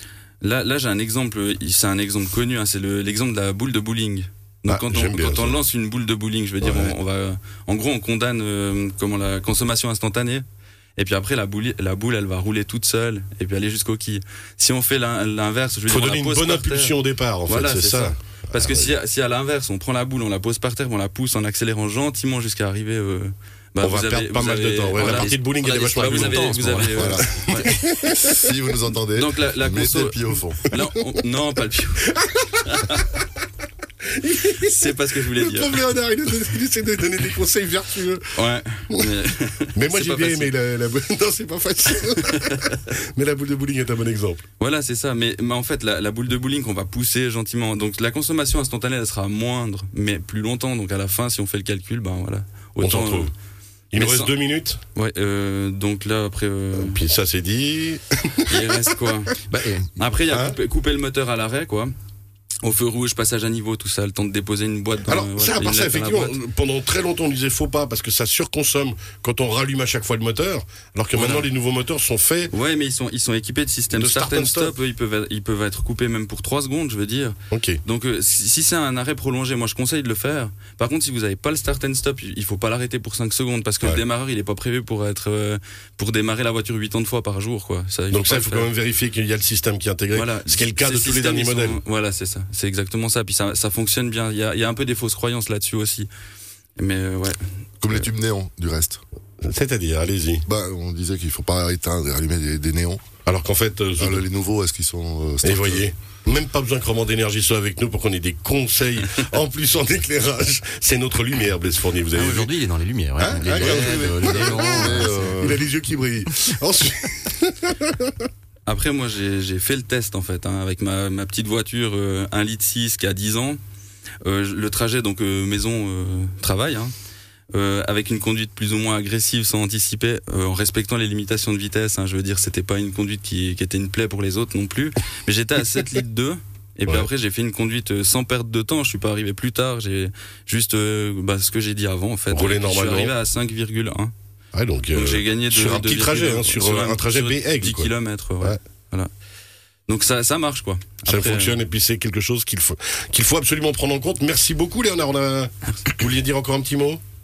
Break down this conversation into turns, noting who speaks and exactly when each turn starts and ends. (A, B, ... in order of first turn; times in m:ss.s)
0:00.4-0:10.4 A
0:04.7-0:05.6 B
0:06.6-0:06.9 B
0:11.0-0:25.4 A
0:15.9-0:18.9 B
0:23.8-0:28.4 B
0:25.0-0:27.8 C
0:26.0-0:27.7 A
0:27.0-0:27.4 D
0:28.0-0:30.6 D
0:29.2-0:33.2 A
0:32.1-0:32.9 B
0:34.1-0:38.3 B
0:34.6-0:35.8 A
0:38.4-0:40.5 A
0:39.8-0:44.4 B
0:42.2-0:42.8 A
0:44.6-0:53.3 A
0:52.8-0:53.3 B
0:53.9-0:54.8 B
0:54.0-0:54.3 A
0:55.0-0:57.0 A
0:56.7-0:58.6 B
0:58.5-0:59.4 A
0:59.5-0:59.9 C
1:00.0-1:01.9 A
1:00.3-1:00.6 B
1:02.6-1:06.4 A
1:05.1-1:12.5 B
1:11.1-1:11.5 A
1:12.5-1:28.7 A
1:13.9-1:14.8 B
1:17.5-1:17.8 B
1:28.1-1:31.8 B
1:30.1-1:36.1 A
1:36.8-1:38.1 A
1:37.8-1:39.0 D
1:39.4-1:40.4 B
1:40.4-1:43.0 D
1:43.3-1:44.3 B
1:44.0-1:45.9 D
1:45.4-1:52.6 B
1:52.1-1:55.6 C
1:53.2-1:58.3 B
1:53.3-1:55.6 D
1:58.7-2:03.6 A
2:04.2-2:06.9 A
2:07.5-2:24.1 A
2:22.3-2:23.2 B
2:24.5-2:28.6 B
2:24.9-2:29.1 A
2:29.9-2:31.6 A
2:31.1-2:37.0 B